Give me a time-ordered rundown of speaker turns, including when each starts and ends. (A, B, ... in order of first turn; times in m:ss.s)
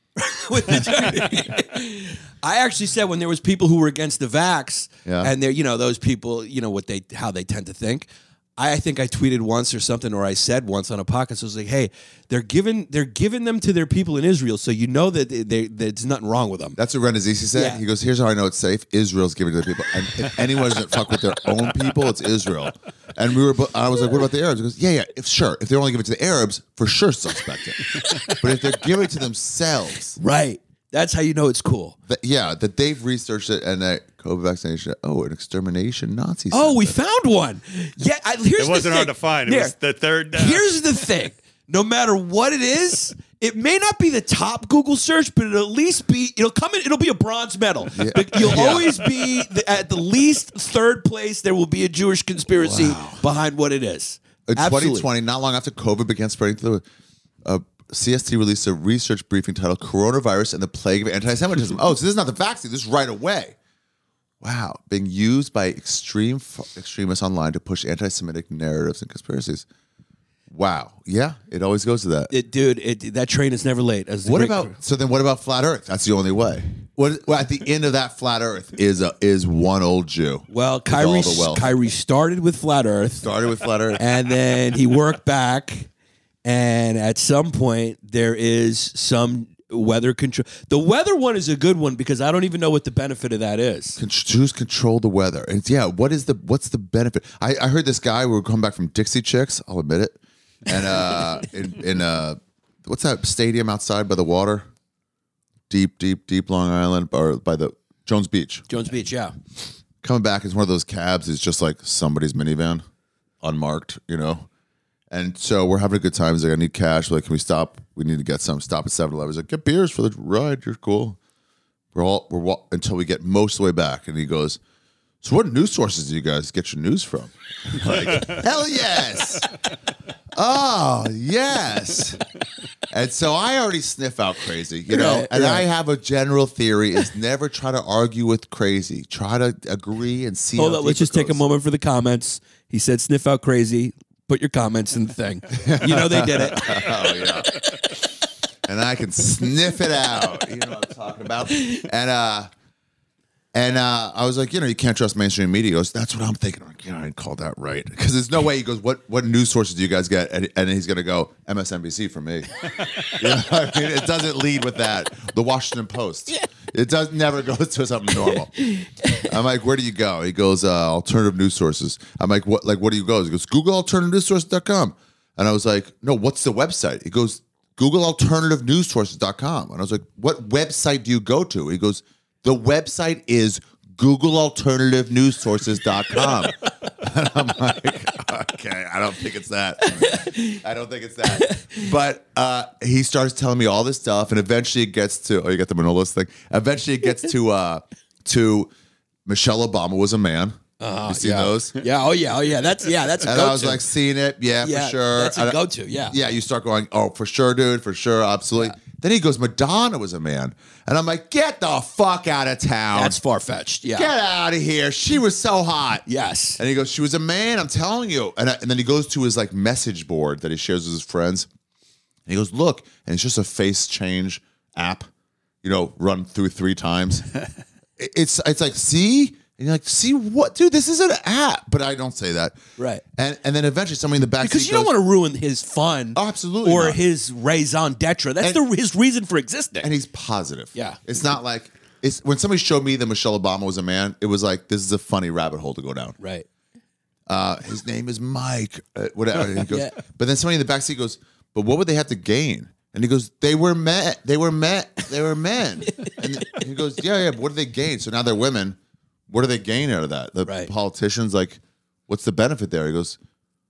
0:00.2-0:16.8 A
0:00.7-0:01.4 B
0:05.0-0:05.3 B
0:16.8-0:30.2 B
0:17.5-0:17.8 A
0:30.2-0:32.0 A
0:32.1-0:37.0 B
0:36.5-0:39.7 A
0:38.6-0:40.8 C
0:40.3-0:55.1 A
0:47.9-0:49.0 B
0:52.6-0:53.2 B
0:54.5-0:56.8 B
0:57.4-1:03.6 B
1:04.4-1:09.6 B
1:10.5-1:12.3 B
1:12.3-1:14.7 A
1:14.2-1:21.8 B
1:20.5-1:23.3 A
1:23.2-1:24.0 B
1:24.0-1:25.9 A
1:26.4-1:34.0 A
1:34.0-1:44.6 B
1:45.7-1:48.7 B
1:48.7-1:49.3 A
1:50.0-1:52.8 B
1:53.4-1:54.5 B
1:55.1-2:01.2 B
2:01.9-2:04.6 B
2:05.2-2:09.5 B
2:10.3-2:12.2 B
2:12.9-2:21.4 B
2:14.9-2:15.6 A
2:20.6-2:27.0 A
2:25.5-2:27.6 B
2:28.6-2:32.5 B
2:33.5-3:18.7 B
3:10.1-3:10.4 A
3:19.2-3:21.8 B
3:20.8-3:23.8 A
3:23.2-3:33.2 B
3:24.6-3:26.2 A
3:32.9-3:34.1 A
3:33.8-3:36.0 B
3:36.0-3:36.6 A
3:36.6-3:41.5 B
3:42.2-3:45.1 B
3:45.6-3:47.2 B
3:48.0-3:52.6 B
3:52.8-3:53.0 A
3:53.1-3:54.9 B
3:54.4-3:59.9 A
3:56.1-3:57.0 B
3:59.8-4:06.2 B
4:06.2-4:06.4 A
4:07.3-4:18.8 B
4:09.6-4:09.9 A
4:16.0-4:16.6 A
4:19.3-4:23.2 B